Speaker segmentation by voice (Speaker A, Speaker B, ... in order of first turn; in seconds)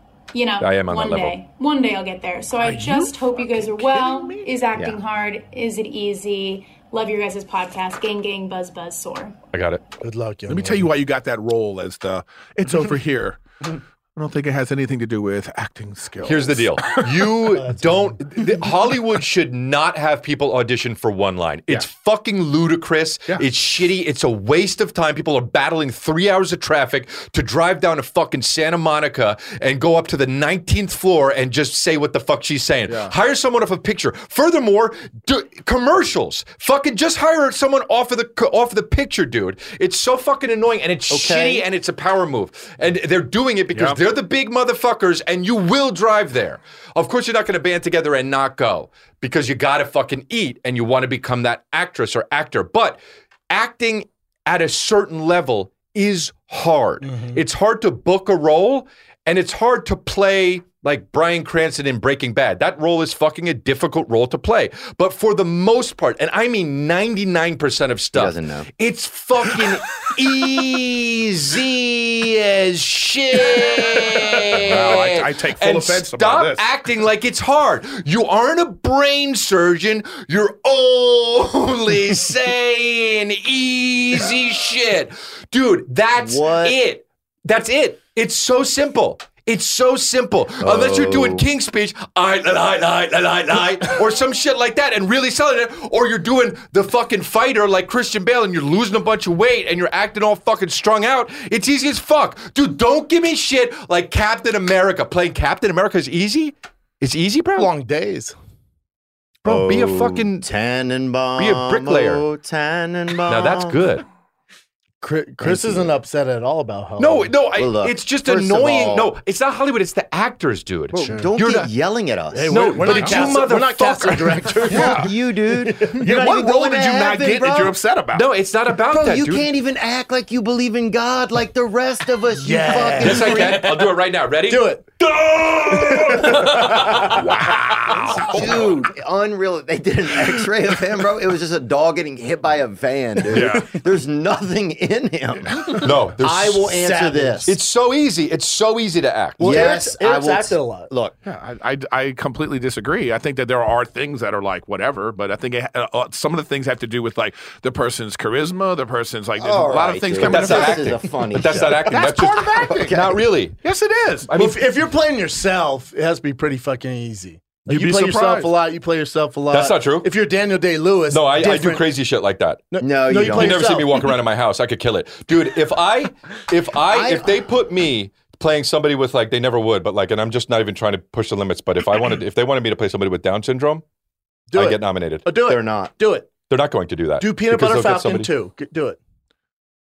Speaker A: 0.3-9.4
Speaker B: 0.6-1.4, 9.5-9.8, 16.2-107.7, 109.4-110.5, 111.4-112.2, 113.3-114.0, 117.0-121.7, 122.5-124.5, 128.1-129.5, 133.0-134.7, 145.8-146.7, 147.4-149.7, 160.2-163.6, 164.3-164.6, 169.5-170.1, 171.1-172.6, 173.2-183.8, 184.5-185.4, 186.5-188.3
Speaker C: 2.6-4.5, 10.5-13.4, 14.2-17.3, 32.9-33.1, 43.7-44.0, 73.6-76.7, 122.9-123.3, 124.6-125.1, 125.9-128.3, 135.2-138.8, 143.3-143.8, 151.2-161.0, 161.8-163.0, 163.6-164.3, 167.7-168.5
Speaker D: 4.7-5.0, 41.1-41.6, 68.1-68.7, 86.2-86.8, 90.6-91.5, 109.5-113.8, 115.4-116.0, 117.5-119.1, 120.9-123.4, 124.7-127.8, 128.8-133.7, 138.2-147.6, 149.4-151.2, 159.4-163.2, 172.8-173.8, 176.9-177.5, 185.4-185.9
Speaker E: 10.0-10.9, 17.5-18.2, 57.0-57.4, 107.5-108.3, 115.0-117.4, 121.0-121.3, 122.3-126.3, 132.3-133.5, 134.5-134.9, 135.7-137.1, 146.4-147.5, 149.4-150.9, 164.3-171.9, 172.7-174.1, 184.5-186.3, 187.2-189.0